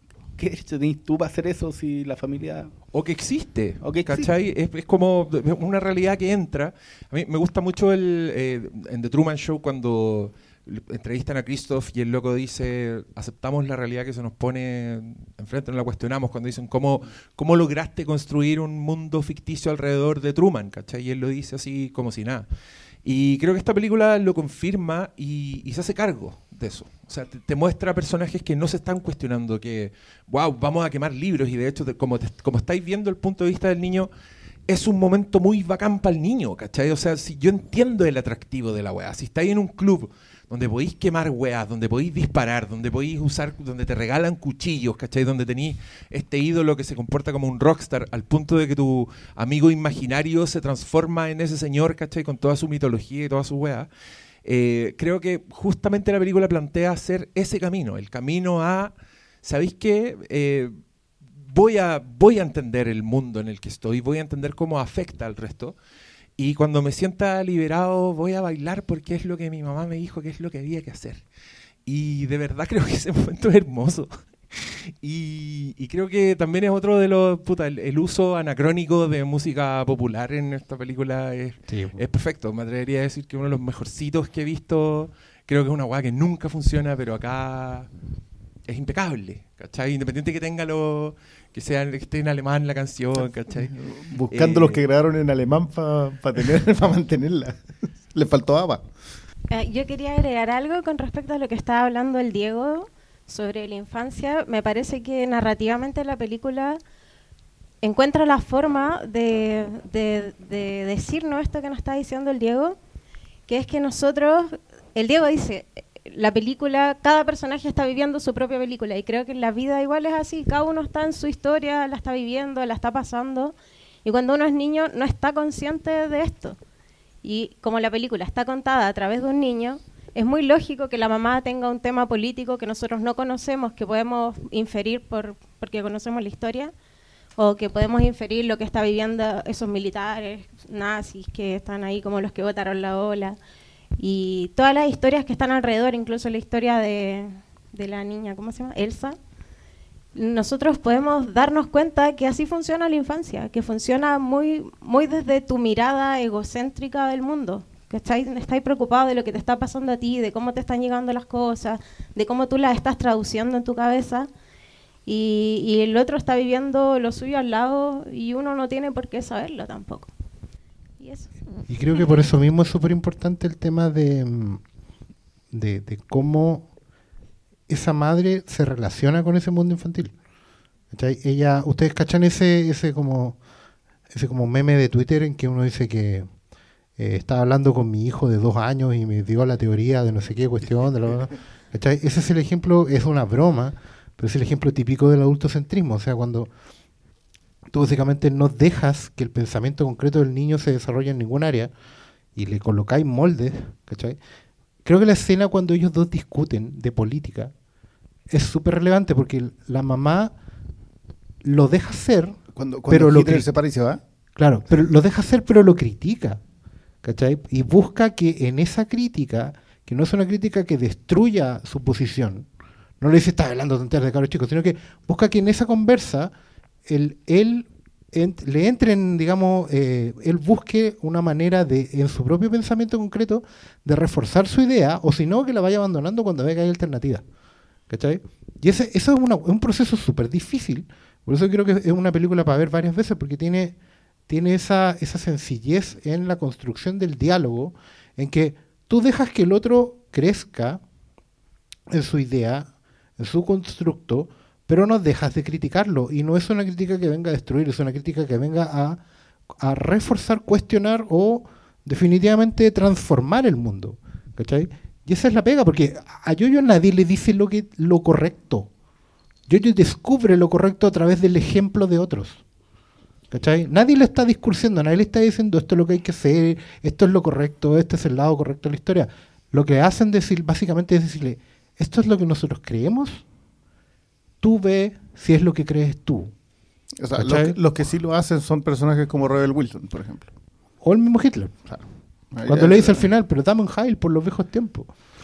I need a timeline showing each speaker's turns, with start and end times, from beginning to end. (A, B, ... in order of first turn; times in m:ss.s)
0:00.4-0:02.7 A
0:02.9-0:22.5 B
0:03.8-0:04.3 A
0:23.0-0:34.1 B
0:34.7-0:53.9 B
0:54.4-1:00.8 B
1:01.5-1:05.8 B
1:06.4-1:11.2 B
1:11.8-1:27.9 B
1:21.7-1:22.0 C
1:28.7-1:33.7 B
1:33.7-1:38.8 D
1:34.3-1:34.8 B
1:39.5-1:46.8 E
1:47.8-1:52.8 E
1:53.5-2:06.6 E
2:07.2-2:16.7 E
2:17.4-2:23.4 E
2:24.0-2:29.2 E
2:30.1-2:44.3 E
2:45.0-2:50.1 E
2:51.0-2:51.3 E
2:51.7-2:54.6 C
2:55.5-2:56.7 C
2:57.7-3:00.1 C
3:00.9-3:03.4 C
3:04.1-3:06.3 C
3:07.0-3:16.5 C
3:17.7-3:21.7 C
3:22.3-3:24.2 C
3:24.8-3:27.5 C
3:28.3-3:30.3 C
3:31.4-3:33.5 C
3:32.6-3:34.0 D
3:34.4-3:36.4 C
3:37.0-3:42.5 C
3:43.0-3:46.3 C
3:46.8-3:57.2 C
3:57.9-4:03.7 C
4:04.3-4:10.8 C
4:11.9-4:19.0 C
4:19.6-4:28.7 C
4:29.5-4:32.4 C
4:33.3-4:43.2 C
4:44.4-4:46.3 C
4:47.0-4:50.3 D
4:47.1-4:47.6 C
4:50.8-4:51.7 C
4:52.3-4:53.1 D
4:52.4-4:54.9 C